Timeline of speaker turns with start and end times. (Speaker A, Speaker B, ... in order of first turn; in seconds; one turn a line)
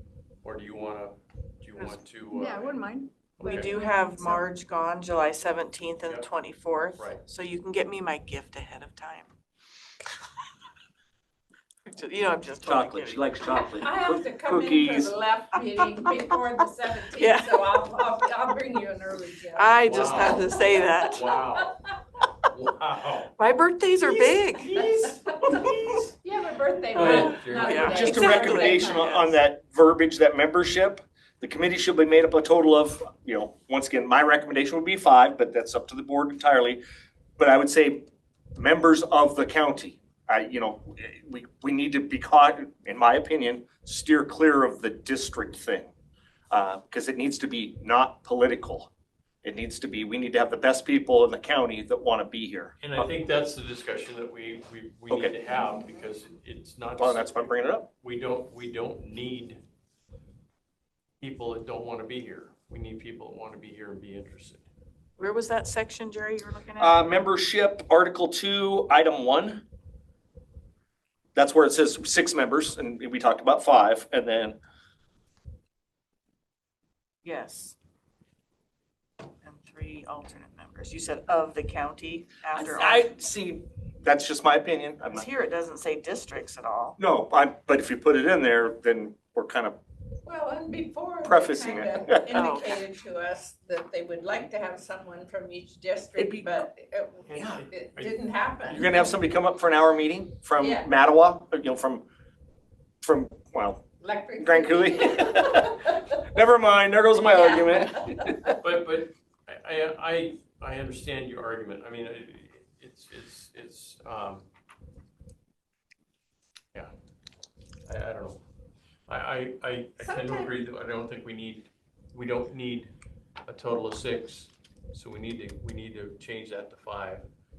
Speaker A: 0.4-2.8
Speaker B: 2.3-4.5
Speaker A: 3.4-3.7
Speaker C: 3.4-9.3
Speaker A: 6.0-6.3
Speaker A: 7.0-7.2
Speaker C: 11.9-13.6
Speaker D: 12.6-15.1
Speaker B: 13.8-21.7
Speaker C: 17.2-17.8
Speaker C: 19.6-21.2
Speaker A: 19.8-20.5
Speaker A: 21.0-21.8
Speaker A: 22.4-23.3
Speaker C: 23.4-24.8
Speaker A: 24.1-25.9
Speaker B: 24.8-29.1
Speaker C: 26.9-29.4
Speaker A: 26.9-28.3
Speaker D: 27.8-36.8
Speaker D: 37.4-38.0
Speaker D: 38.6-45.9
Speaker D: 46.5-48.9
Speaker D: 49.4-52.8
Speaker A: 52.8-59.6
Speaker D: 55.1-55.4
Speaker D: 57.0-57.9
Speaker A: 61.2-64.7
Speaker C: 65.2-67.0
Speaker D: 66.8-69.6
Speaker D: 71.3-74.6
Speaker C: 77.2-77.8
Speaker C: 79.4-83.1
Speaker D: 82.5-85.3
Speaker C: 85.1-87.0
Speaker D: 87.0-89.8
Speaker B: 90.2-99.0
Speaker D: 91.2-92.4
Speaker C: 92.3-92.8
Speaker D: 96.2-96.6
Speaker A: 97.3-98.8
Speaker D: 98.7-102.0
Speaker B: 100.6-100.9
Speaker D: 103.0-103.8
Speaker B: 104.0-106.1
Speaker D: 104.4-108.5
Speaker B: 107.3-108.2
Speaker A: 108.5-114.5
Speaker A: 117.9-118.4
Speaker A: 119.1-122.9
Speaker B: 120.0-120.5
Speaker A: 123.5-127.3